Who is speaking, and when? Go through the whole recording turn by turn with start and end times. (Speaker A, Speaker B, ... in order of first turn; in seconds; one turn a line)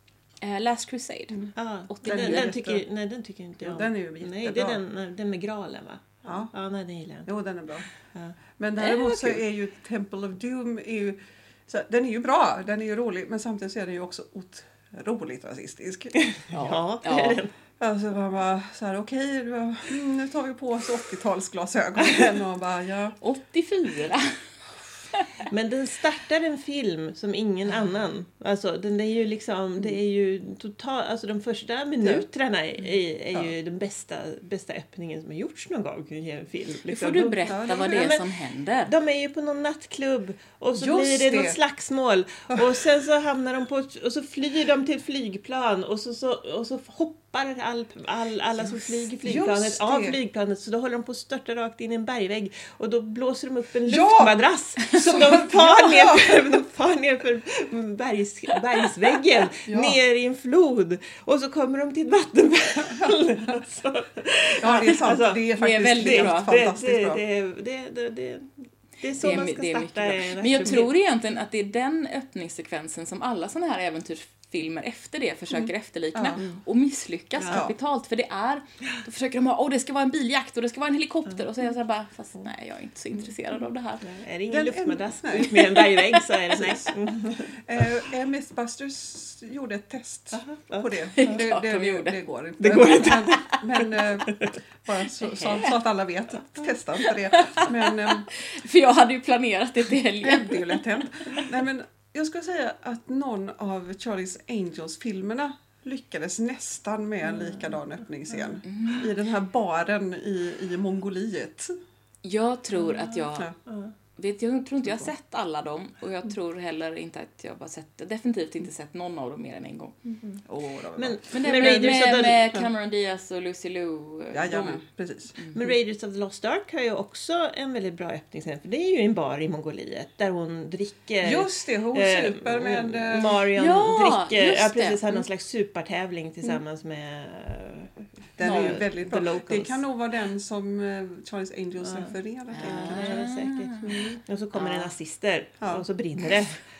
Speaker A: 0.4-2.5
Speaker B: 1.6-7.3
Speaker C: 2.0-2.8
Speaker C: 3.6-4.8
Speaker C: 6.2-6.5
Speaker C: 7.2-7.8
Speaker C: 8.6-16.1
Speaker A: 8.8-9.4
Speaker B: 16.1-17.5
Speaker A: 16.5-17.4
Speaker C: 17.8-23.2
Speaker A: 23.2-24.3
Speaker B: 25.5-38.3
Speaker A: 36.9-38.9
Speaker C: 37.5-38.2
Speaker B: 38.9-70.9
Speaker C: 40.8-41.6
Speaker C: 49.2-50.2
Speaker C: 53.9-54.4
Speaker C: 54.9-56.5
Speaker C: 59.6-60.0
Speaker C: 64.6-67.2
Speaker A: 65.6-66.6
Speaker A: 69.2-84.0
Speaker C: 75.5-76.4
Speaker C: 77.5-77.7
Speaker B: 84.0-87.6
Speaker C: 84.5-86.9
Speaker C: 87.6-98.3
Speaker B: 90.3-91.4
Speaker A: 91.2-92.2
Speaker B: 92.6-94.5
Speaker A: 95.2-95.7
Speaker A: 97.0-100.8
Speaker C: 100.2-111.7
Speaker A: 108.6-109.1
Speaker A: 112.2-113.5
Speaker B: 113.7-113.9
Speaker A: 114.2-120.0
Speaker C: 120.5-121.8
Speaker B: 121.0-122.5
Speaker A: 121.3-124.8
Speaker C: 124.3-125.4
Speaker B: 125.5-139.8
Speaker C: 131.2-133.4
Speaker A: 133.5-135.2
Speaker C: 138.4-143.3
Speaker A: 138.4-138.8
Speaker B: 141.8-146.6
Speaker A: 142.5-144.0
Speaker C: 143.8-144.2
Speaker A: 144.6-144.9